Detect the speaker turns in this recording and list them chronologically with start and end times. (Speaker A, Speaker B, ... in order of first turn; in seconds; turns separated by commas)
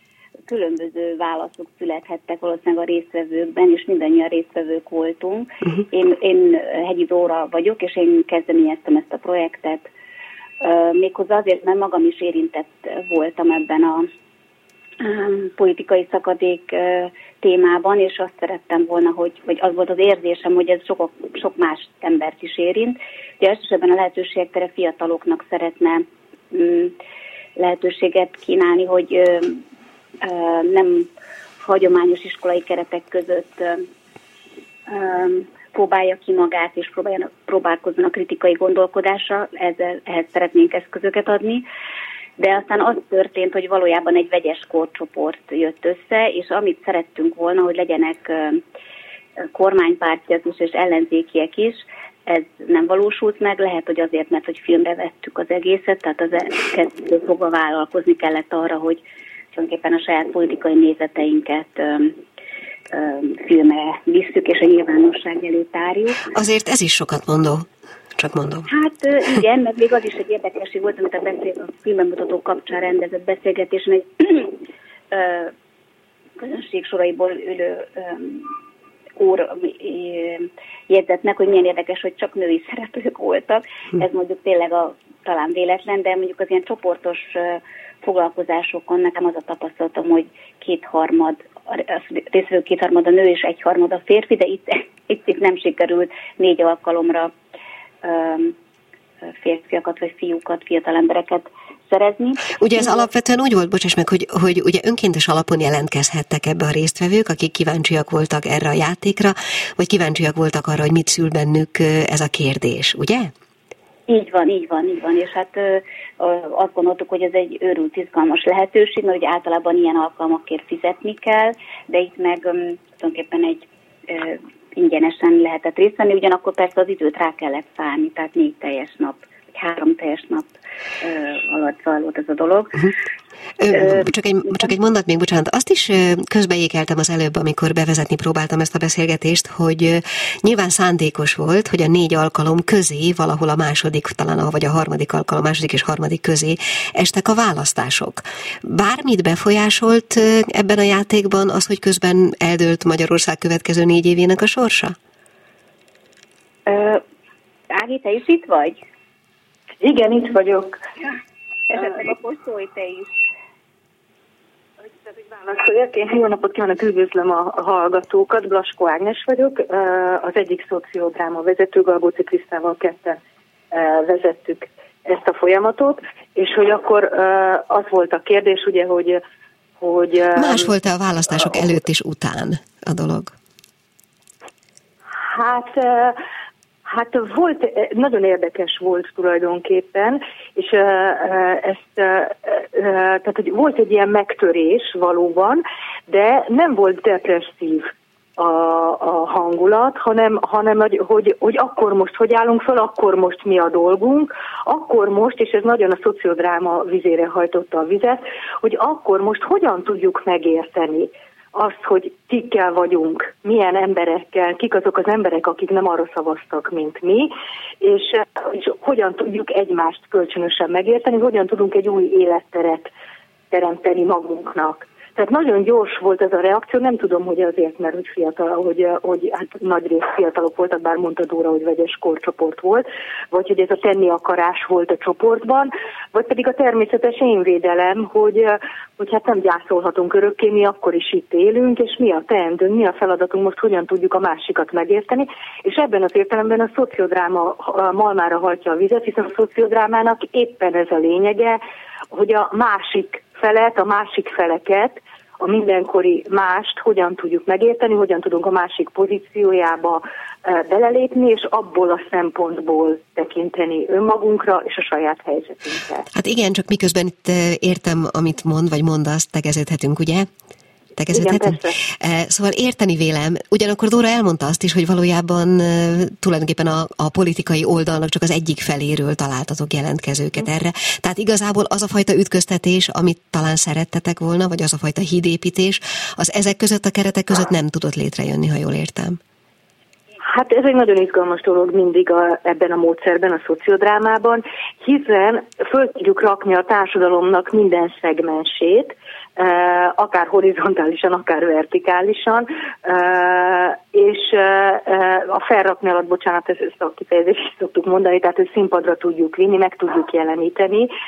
Speaker A: 0.5-9.9, Speaker A: 10.6-14.1, Speaker A: 15.0-26.9, Speaker A: 27.6-29.6, Speaker A: 30.2-31.1, Speaker A: 31.6-33.9, Speaker A: 34.9-41.6, Speaker A: 42.4-48.6, Speaker A: 49.4-62.2, Speaker A: 62.9-66.3, Speaker B: 66.3-68.7, Speaker A: 68.7-74.6, Speaker A: 75.1-75.5, Speaker A: 76.4-78.6, Speaker A: 79.2-97.3, Speaker A: 98.0-98.6, Speaker A: 99.2-103.0, Speaker B: 102.6-113.3, Speaker A: 114.1-132.9, Speaker B: 133.6-155.0, Speaker A: 133.7-134.1, Speaker A: 156.7-157.0, Speaker A: 157.7-158.8, Speaker C: 159.8-160.8, Speaker A: 161.7-163.1, Speaker C: 164.9-173.2, Speaker C: 173.7-179.2, Speaker C: 179.8-180.7, Speaker B: 180.3-183.3, Speaker C: 185.2-186.2, Speaker C: 186.8-222.9, Speaker C: 223.5-251.6, Speaker C: 252.1-266.1, Speaker B: 266.1-270.3, Speaker B: 271.0-289.2, Speaker C: 271.1-271.8, Speaker C: 290.2-310.9